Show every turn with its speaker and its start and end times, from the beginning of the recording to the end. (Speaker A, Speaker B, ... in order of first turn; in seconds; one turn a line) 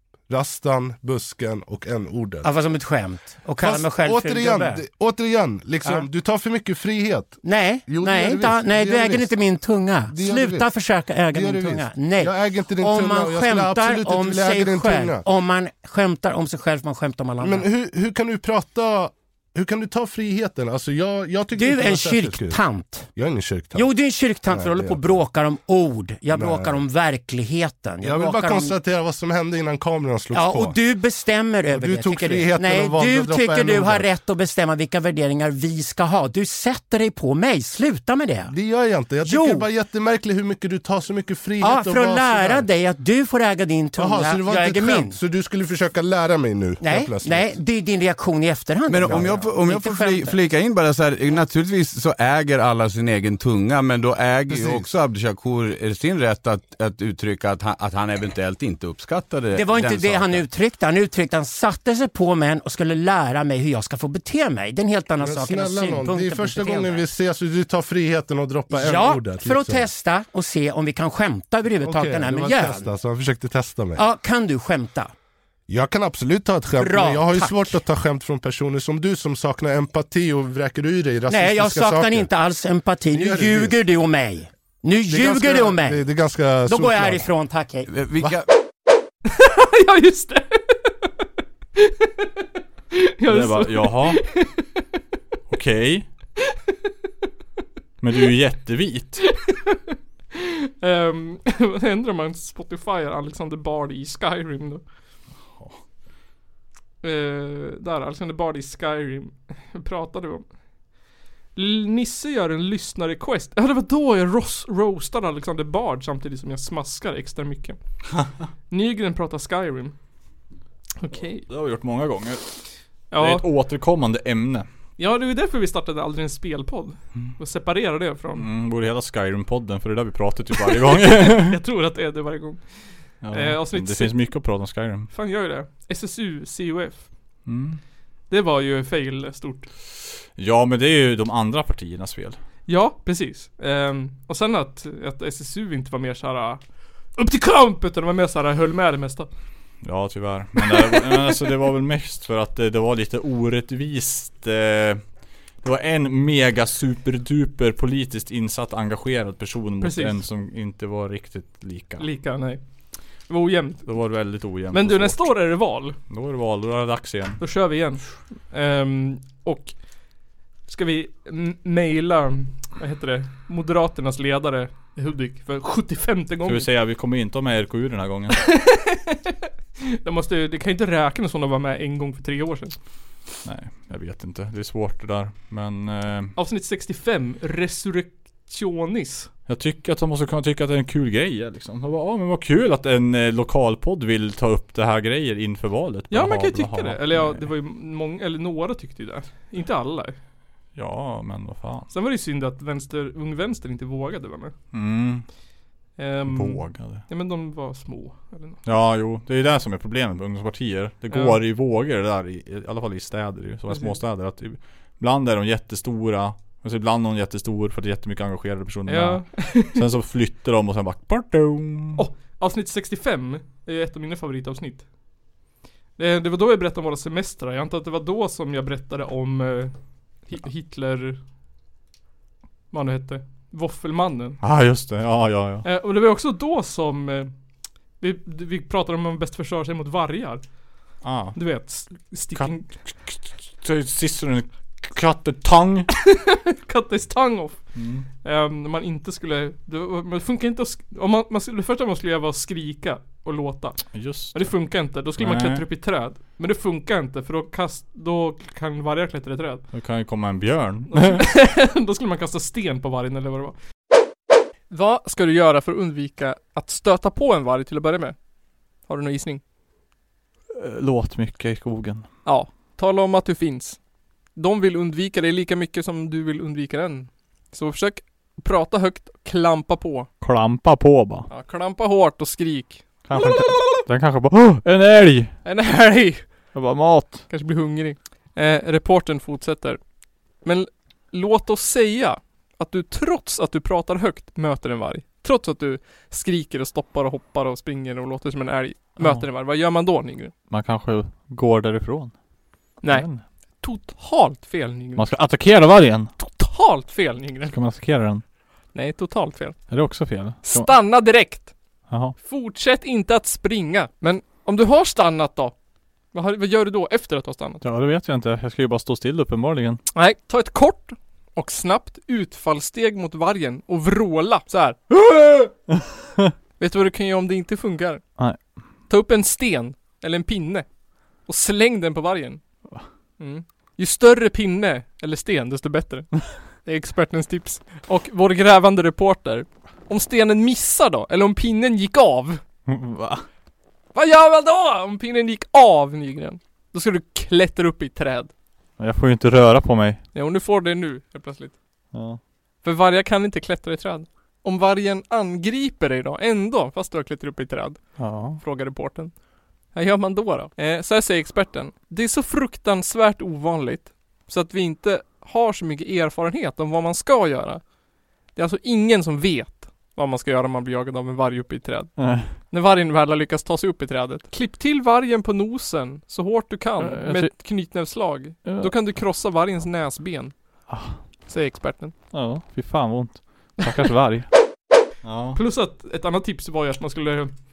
Speaker A: 0.3-2.5
Speaker B: 2.4-4.8
Speaker A: 3.6-9.4
Speaker B: 7.4-17.7
Speaker A: 10.1-10.7
Speaker A: 11.3-15.2
Speaker A: 17.4-22.6
Speaker B: 21.5-23.1
Speaker A: 23.1-23.9
Speaker B: 23.7-28.8
Speaker A: 24.5-25.2
Speaker A: 26.3-26.8
Speaker A: 28.0-30.8
Speaker B: 30.3-38.5
Speaker A: 31.7-34.1
Speaker A: 38.5-42.7
Speaker B: 39.2-39.7
Speaker B: 41.6-45.2
Speaker A: 44.0-47.6
Speaker B: 46.8-50.4
Speaker C: 48.9-60.5
Speaker A: 49.1-49.5
Speaker A: 54.5-54.9
Speaker B: 59.5-67.0
Speaker A: 65.2-69.9
Speaker B: 68.7-72.9
Speaker A: 71.8-74.0
Speaker B: 74.0-75.1
Speaker A: 75.7-82.3
Speaker B: 76.8-77.8
Speaker B: 81.3-86.0
Speaker A: 83.1-83.8
Speaker A: 85.1-87.3
Speaker B: 86.6-87.9
Speaker C: 87.9-88.5
Speaker A: 88.2-88.4
Speaker D: 89.3-91.1
Speaker D: 91.8-92.3
Speaker D: 92.9-94.8
Speaker E: 93.2-94.2
Speaker E: 95.5-96.1
Speaker E: 98.0-99.2
Speaker D: 99.3-99.8
Speaker D: 100.3-104.8
Speaker E: 105.4-105.8
Speaker D: 107.0-110.4
Speaker D: 111.5-117.8
Speaker D: 118.7-119.9
Speaker D: 121.0-121.5
Speaker E: 121.4-122.5
Speaker D: 123.1-123.5
Speaker E: 123.2-124.7
Speaker D: 125.0-128.5
Speaker E: 128.3-131.6
Speaker D: 131.0-134.2
Speaker E: 133.2-135.1
Speaker D: 135.1-137.1
Speaker E: 137.4-137.8
Speaker D: 138.3-139.7
Speaker E: 140.3-142.4
Speaker D: 142.7-146.6
Speaker D: 147.2-149.3
Speaker E: 149.8-155.1
Speaker E: 155.6-162.1
Speaker D: 159.8-160.2
Speaker D: 162.0-162.6
Speaker D: 163.3-163.9
Speaker E: 163.8-165.4
Speaker D: 164.7-166.0
Speaker E: 166.0-167.4
Speaker D: 167.4-169.8
Speaker D: 170.7-176.7
Speaker E: 176.4-178.5
Speaker D: 178.4-179.3
Speaker D: 179.8-182.8
Speaker E: 183.4-186.3
Speaker D: 186.3-189.3
Speaker E: 189.5-197.5
Speaker D: 196.1-200.2
Speaker E: 200.7-201.9
Speaker D: 201.9-204.5
Speaker E: 204.7-205.2
Speaker D: 206.0-208.6
Speaker E: 206.3-207.0
Speaker E: 208.6-222.0
Speaker D: 211.1-211.4
Speaker D: 213.7-214.0
Speaker D: 218.9-219.8
Speaker D: 221.9-224.8
Speaker D: 226.0-231.2
Speaker D: 232.7-234.4
Speaker E: 234.4-235.6
Speaker D: 235.6-237.3
Speaker D: 238.0-240.4
Speaker E: 241.0-241.5
Speaker D: 241.3-242.7
Speaker E: 242.3-245.9
Speaker D: 246.1-247.6
Speaker E: 247.7-248.1
Speaker D: 248.2-259.7
Speaker E: 253.9-255.6
Speaker E: 259.7-261.2
Speaker D: 260.9-263.6
Speaker D: 264.7-268.1
Speaker D: 268.9-269.4
Speaker E: 270.5-272.1
Speaker D: 272.2-273.8
Speaker D: 274.4-280.1
Speaker E: 280.2-281.3
Speaker D: 281.3-283.8
Speaker E: 283.1-285.4
Speaker D: 285.4-286.3
Speaker E: 286.5-287.2
Speaker D: 287.3-289.8
Speaker D: 290.4-300.3
Speaker E: 299.0-299.2
Speaker E: 300.5-302.1
Speaker D: 302.8-303.1
Speaker E: 302.8-303.2
Speaker D: 303.6-305.1
Speaker E: 304.9-306.1
Speaker D: 306.2-307.5
Speaker E: 307.5-308.2
Speaker D: 308.7-309.6
Speaker E: 309.7-310.7
Speaker D: 310.4-311.5
Speaker E: 311.9-312.1
Speaker D: 312.2-315.5
Speaker D: 316.1-317.6
Speaker E: 317.6-319.8
Speaker D: 319.9-324.8
Speaker E: 324.9-326.3
Speaker D: 326.6-328.0
Speaker E: 328.2-328.5
Speaker D: 328.9-330.6
Speaker D: 331.2-332.4
Speaker D: 333.2-342.4
Speaker E: 342.7-343.2
Speaker D: 343.9-348.3
Speaker E: 348.8-350.0
Speaker D: 350.1-351.5
Speaker E: 351.9-352.2
Speaker D: 352.6-359.1
Speaker E: 358.0-358.4
Speaker D: 359.7-367.6
Speaker D: 368.3-380.3
Speaker E: 372.0-372.3
Speaker E: 376.8-377.3
Speaker E: 378.4-378.7
Speaker E: 380.7-381.0
Speaker D: 381.3-381.9
Speaker E: 382.1-384.3
Speaker E: 385.0-385.4
Speaker D: 385.3-387.3